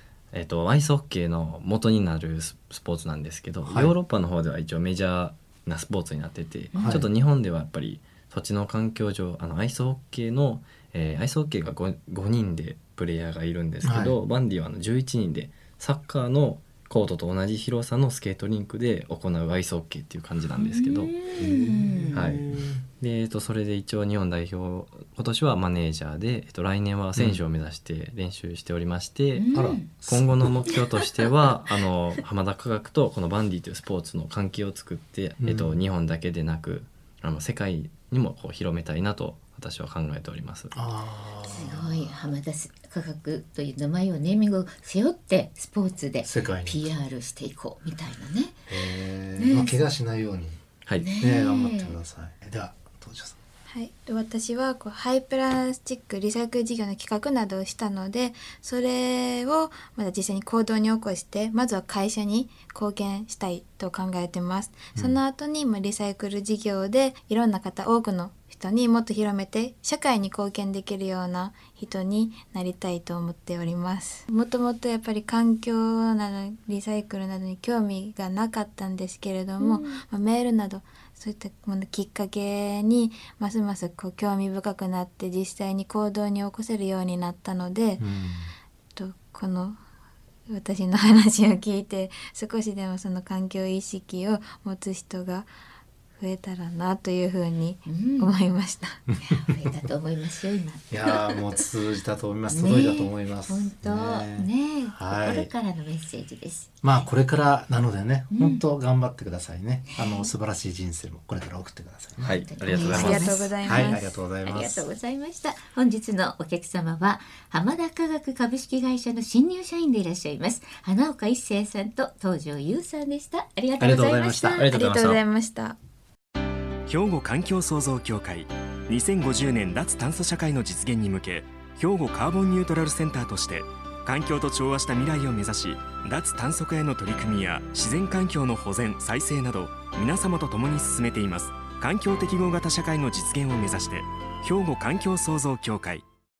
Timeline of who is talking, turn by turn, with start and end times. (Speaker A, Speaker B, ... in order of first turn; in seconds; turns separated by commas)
Speaker A: 0.3-21.5, Speaker B: 3.6-3.9, Speaker C: 6.7-7.0, Speaker B: 6.8-7.1, Speaker B: 13.8-14.2, Speaker C: 20.6-22.2, Speaker B: 21.4-22.8, Speaker A: 22.1-40.7, Speaker B: 27.1-27.4, Speaker C: 29.3-29.9, Speaker B: 29.5-30.6, Speaker B: 35.4-35.8, Speaker B: 40.7-42.3, Speaker C: 41.4-48.6, Speaker B: 46.2-46.9, Speaker B: 48.7-50.6, Speaker C: 49.4-49.8, Speaker C: 51.0-52.0, Speaker B: 51.2-53.4, Speaker D: 53.7-88.0, Speaker C: 79.6-80.0, Speaker B: 88.0-88.5, Speaker D: 89.0-89.8, Speaker D: 90.5-95.5, Speaker D: 96.2-99.0, Speaker C: 97.8-98.3, Speaker C: 99.2-101.3, Speaker B: 100.9-105.5, Speaker C: 102.5-106.7, Speaker B: 106.8-113.1, Speaker C: 108.3-108.6, Speaker C: 109.9-110.3, Speaker A: 112.2-113.4, Speaker C: 112.4-124.6, Speaker D: 112.8-114.1, Speaker B: 113.6-114.9, Speaker B: 123.8-124.6, Speaker D: 124.5-125.8, Speaker A: 124.6-125.2, Speaker E: 126.9-146.0